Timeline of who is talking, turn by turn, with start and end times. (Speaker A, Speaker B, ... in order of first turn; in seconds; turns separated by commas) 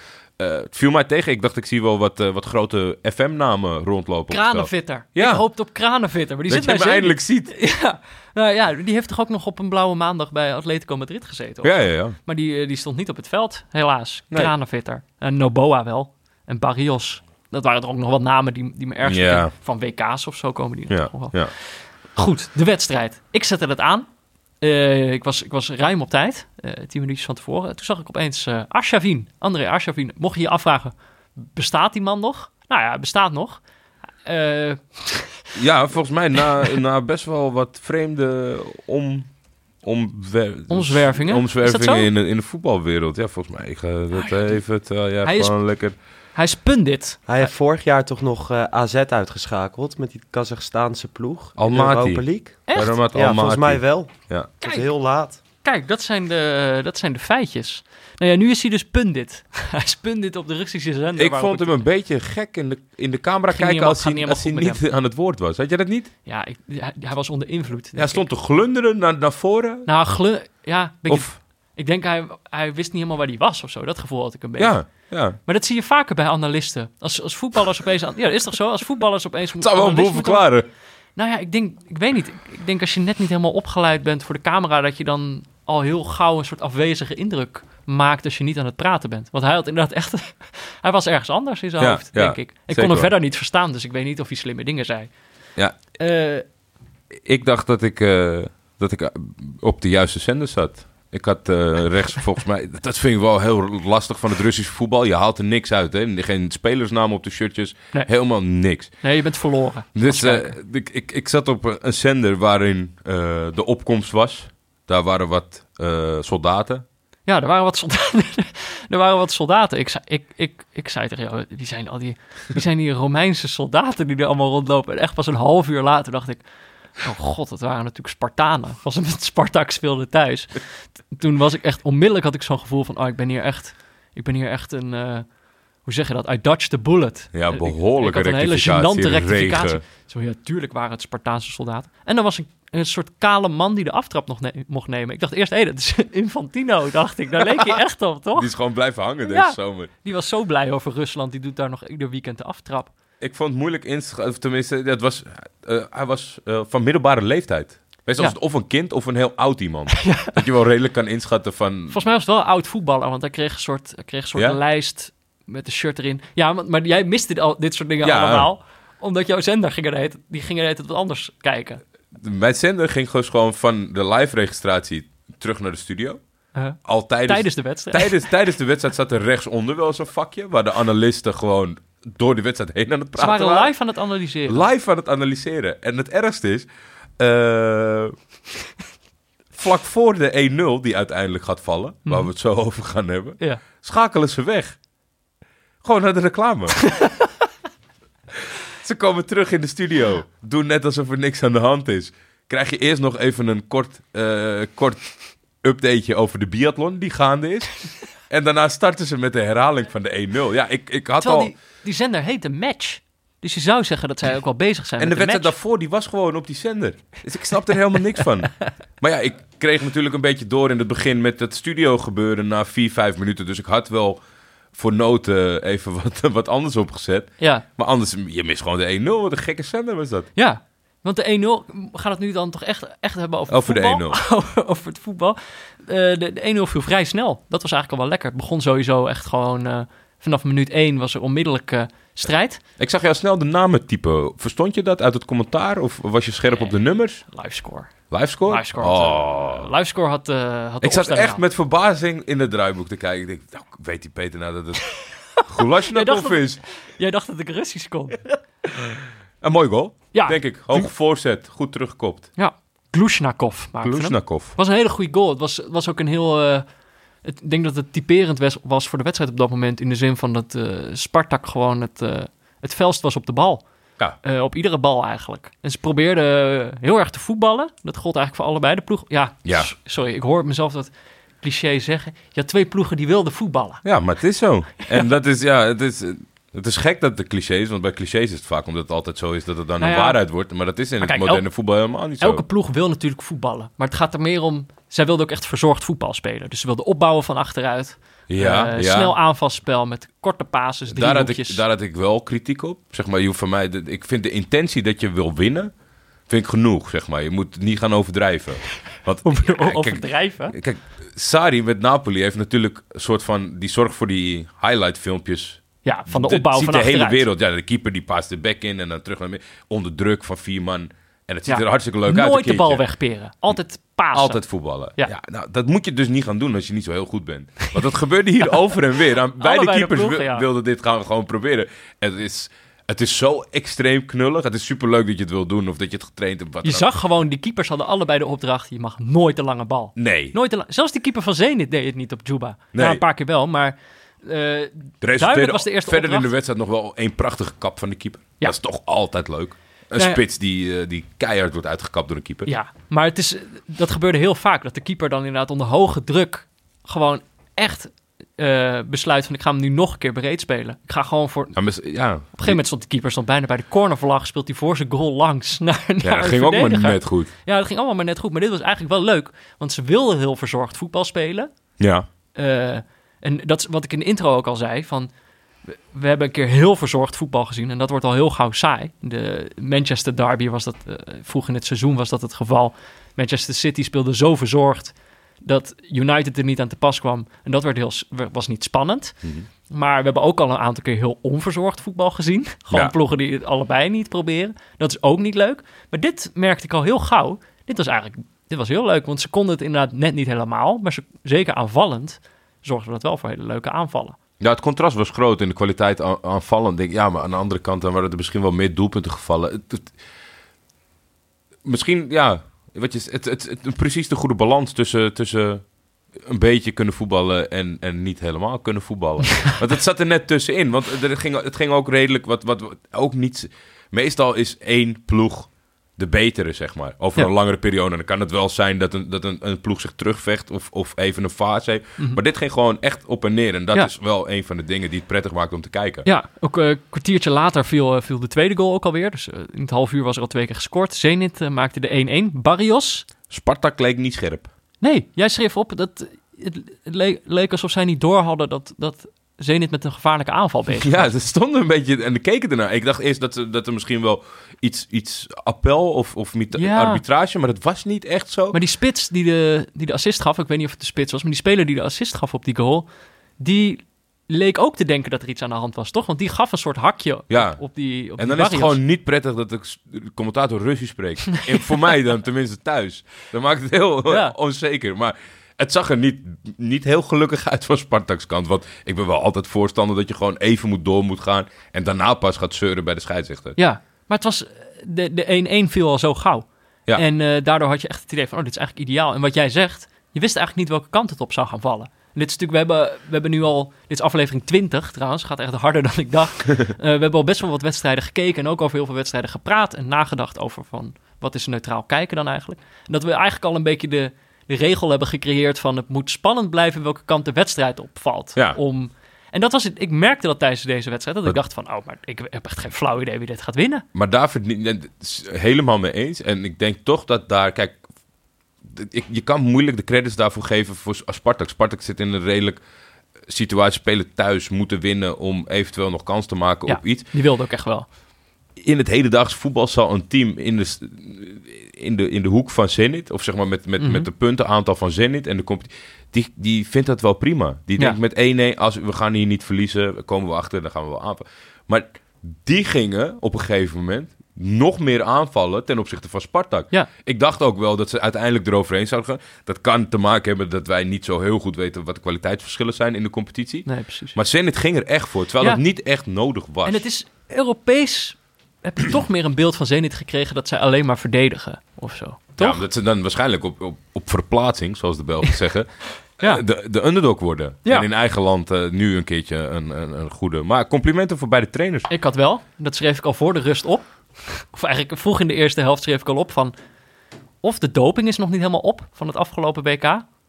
Speaker A: 0.4-5.5, Speaker B: 4.3-11.7, Speaker A: 6.5-7.5, Speaker A: 11.6-12.2, Speaker B: 12.2-21.5, Speaker A: 19.0-19.5, Speaker A: 20.9-21.5, Speaker B: 22.1-24.1, Speaker B: 24.6-33.6, Speaker B: 34.2-35.5, Speaker A: 35.5-39.3, Speaker A: 39.8-45.9, Speaker B: 40.7-42.1, Speaker B: 45.2-45.5, Speaker B: 46.3-47.5, Speaker C: 47.3-55.4, Speaker A: 51.6-54.6, Speaker B: 52.7-53.0, Speaker B: 55.6-61.8, Speaker A: 61.2-66.1, Speaker B: 63.5-64.8, Speaker B: 66.2-68.2, Speaker A: 68.0-69.9, Speaker B: 69.8-74.8, Speaker A: 71.1-71.3, Speaker A: 74.6-75.4, Speaker B: 75.5-80.5, Speaker A: 79.6-80.7, Speaker B: 81.2-95.1, Speaker A: 91.8-93.1, Speaker B: 96.0-96.4, Speaker A: 97.2-108.9, Speaker B: 109.0-110.5, Speaker A: 109.9-116.8, Speaker B: 117.3-126.4, Speaker B: 127.0-135.2, Speaker B: 135.8-148.5, Speaker A: 137.3-139.8, Speaker A: 148.3-149.9, Speaker B: 149.2-152.9, Speaker A: 153.2-162.0, Speaker B: 159.9-160.4, Speaker B: 161.9-171.8, Speaker A: 168.0-168.5, Speaker A: 172.1-176.2, Speaker B: 176.5-178.2, Speaker A: 176.8-183.7, Speaker B: 183.2-184.6, Speaker A: 184.5-186.7, Speaker A: 187.2-188.1, Speaker A: 189.6-194.8, Speaker A: 195.8-196.9, Speaker B: 196.8-197.3, Speaker A: 198.8-205.1, Speaker A: 205.6-211.5, Speaker B: 211.2-215.5, Speaker A: 215.0-224.2, Speaker A: 224.7-230.3, Speaker B: 227.4-227.6, Speaker B: 230.3-242.6, Speaker A: 233.5-234.2, Speaker A: 242.8-247.2, Speaker B: 246.5-246.7, Speaker B: 247.3-247.9, Speaker A: 248.1-249.7, Speaker B: 248.4-251.4, Speaker A: 250.8-256.6, Speaker B: 254.9-258.2, Speaker A: 259.4-262.3, Speaker B: 260.1-260.9, Speaker B: 262.4-266.6, Speaker A: 263.8-264.6, Speaker B: 267.2-273.6, Speaker B: 274.2-280.9, Speaker A: 279.4-279.7, Speaker B: 281.4-283.8, Speaker A: 283.8-292.4, Speaker B: 289.8-290.2, Speaker B: 291.0-291.4, Speaker B: 292.2-301.6, Speaker A: 298.3-299.1, Speaker A: 300.9-305.7, Speaker A: 306.3-322.8, Speaker B: 309.2-310.5, Speaker B: 315.8-317.2, Speaker B: 321.5-324.4, Speaker A: 324.1-336.9, Speaker B: 329.4-330.4, Speaker B: 336.6-346.3, Speaker A: 339.9-340.4, Speaker A: 342.7-343.0, Speaker A: 345.0-352.5, Speaker B: 349.9-350.2, Speaker B: 352.4-361.6, Speaker A: 361.5-362.6, Speaker B: 362.4-371.5, Speaker A: 366.0-367.3, Speaker A: 371.8-372.1, Speaker B: 372.3-375.1, Speaker B: 375.7-389.1, Speaker B: 389.7-404.2, Speaker A: 404.4-409.9, Speaker A: 411.6-415.6, Speaker A: 416.2-436.1, Speaker B: 436.0-443.1, Speaker A: 443.3-444.5, Speaker B: 444.8-451.1, Speaker A: 450.8-458.6, Speaker B: 456.5-457.0, Speaker B: 458.5-462.9, Speaker B: 463.4-468.8, Speaker A: 467.3-467.6, Speaker A: 468.2-483.6, Speaker B: 474.1-474.3, Speaker B: 483.6-513.8, Speaker A: 513.9-517.8, Speaker A: 518.7-522.6, Speaker A: 523.3-527.0, Speaker B: 526.7-527.9, Speaker A: 528.6-556.8, Speaker B: 533.8-534.1, Speaker B: 553.6-554.2, Speaker B: 556.6-562.6, Speaker A: 562.4-565.7, Speaker A: 566.2-571.9, Speaker B: 571.9-576.5, Speaker B: 577.4-580.0